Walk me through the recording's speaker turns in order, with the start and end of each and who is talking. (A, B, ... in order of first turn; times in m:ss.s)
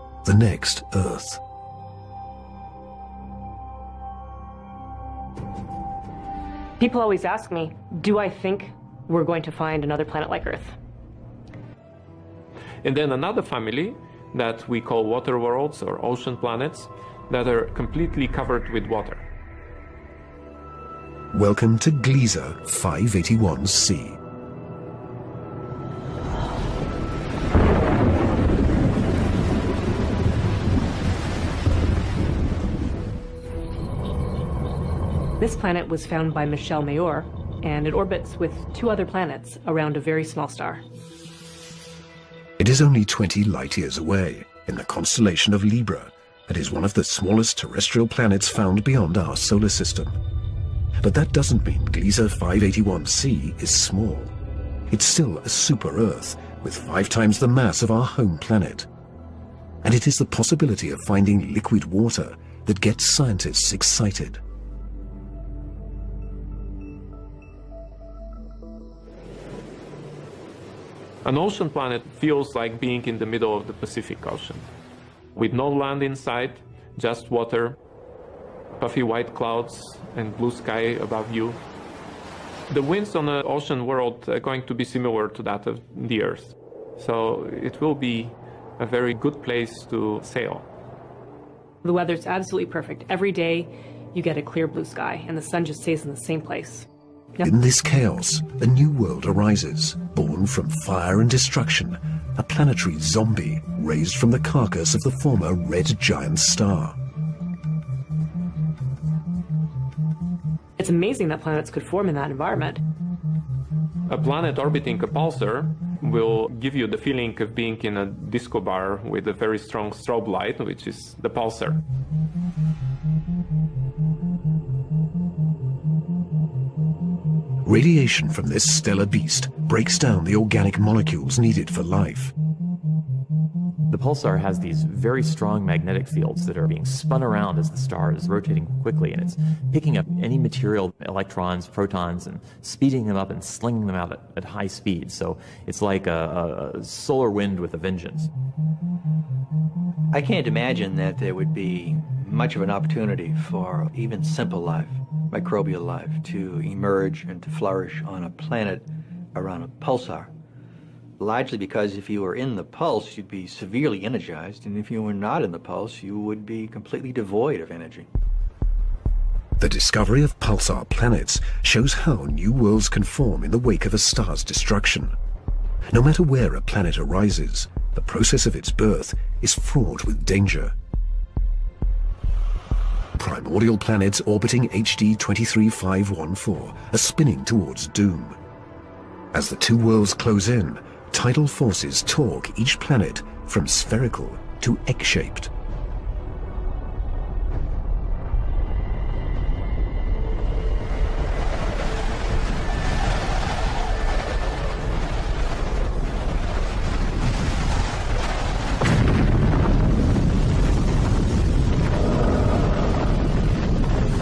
0:00.2-0:01.4 A
0:06.8-0:10.8 B
0:12.8-0:19.2 C
0:21.3-0:24.2 A
0:35.4-0:40.8 B
0:42.6-0:50.2 A
0:51.0-0:54.3 A
0:54.9-0:58.9 A
0:59.8-1:04.4 A
1:11.2-1:14.7 C
1:15.4-1:17.8 C
1:18.8-1:21.6 C
1:22.7-1:30.7 C
1:31.8-1:36.9 B
1:37.4-1:47.0 A
1:50.8-1:52.8 B
1:54.1-2:01.8 C
2:07.6-2:12.3 A
2:13.9-2:28.3 D
2:30.1-2:40.3 E
2:41.2-2:48.1 E
2:49.6-2:55.2 A
2:55.9-3:00.8 A
3:03.2-3:08.4 A
3:09.3-3:15.5 A